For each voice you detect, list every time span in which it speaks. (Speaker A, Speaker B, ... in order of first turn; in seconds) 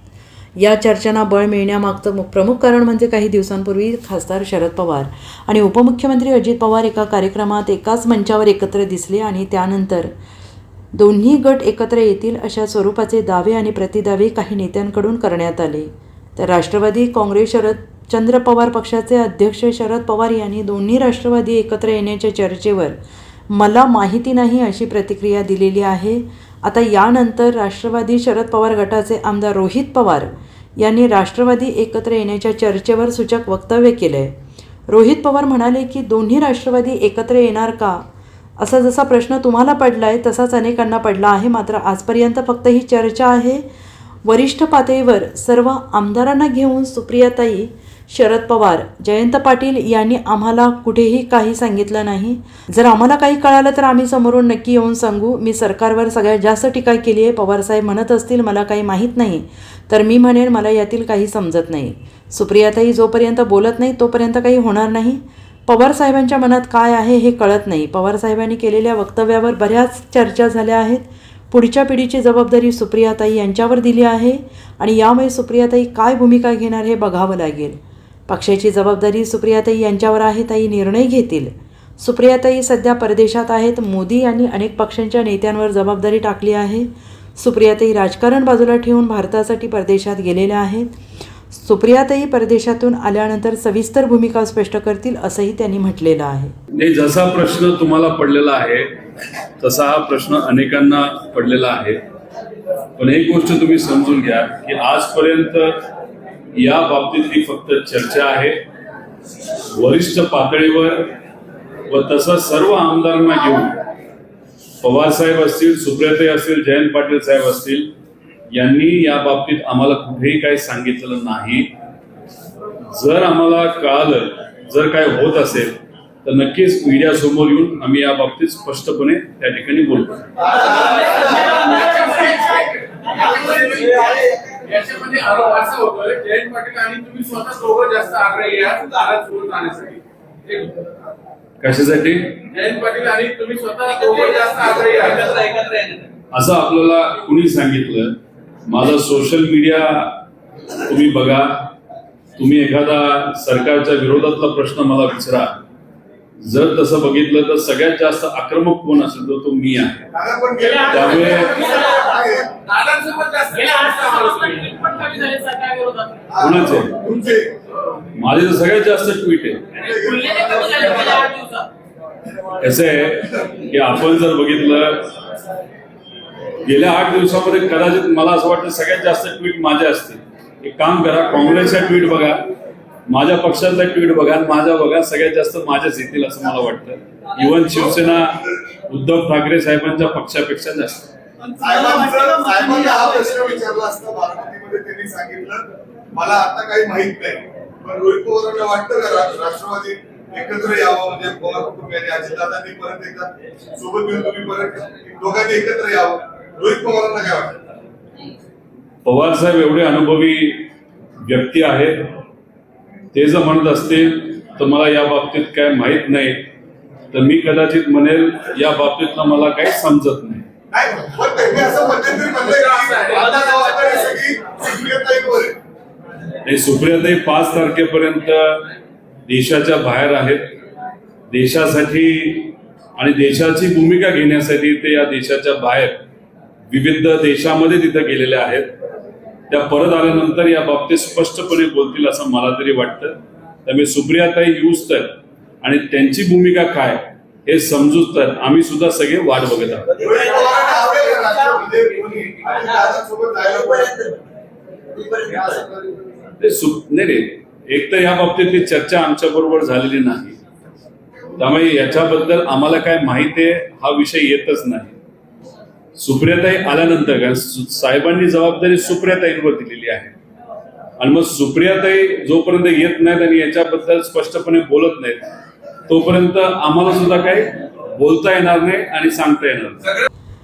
Speaker A: 0.6-10.1, 10.9-22.9, 23.5-34.4, 34.9-38.0, 38.6-43.6, 44.2-90.9, 91.5-96.5
Speaker B: 96.8-99.0, 99.6-102.0, 103.0-105.9, 106.5-108.6, 109.7-111.2, 111.9-113.8, 114.8-117.9, 118.5-121.7, 122.9-130.7, 141.6-142.6, 146.3-151.7, 152.4-155.6, 156.4-160.1, 160.8-161.7, 166.4-167.0, 168.1-169.9, 172.5-175.2, 176.6-182.5, 183.1-191.1, 209.0-210.7, 211.2-212.2, 213.1-216.5, 217.1-220.5, 226.4-228.7, 229.3-230.6, 231.3-236.0, 236.7-238.7, 239.5-249.9, 256.4-260.4, 261.4-264.9, 265.9-270.1, 271.0-275.3, 275.9-280.1
Speaker C: 130.8-140.8, 142.5-145.9, 162.6-166.2, 169.9-171.7, 222.6-223.2
Speaker D: 160.1-162.6, 166.3-167.6, 169.8-171.2, 191.6-207.6, 220.7-225.6, 249.9-254.1, 255.1-255.7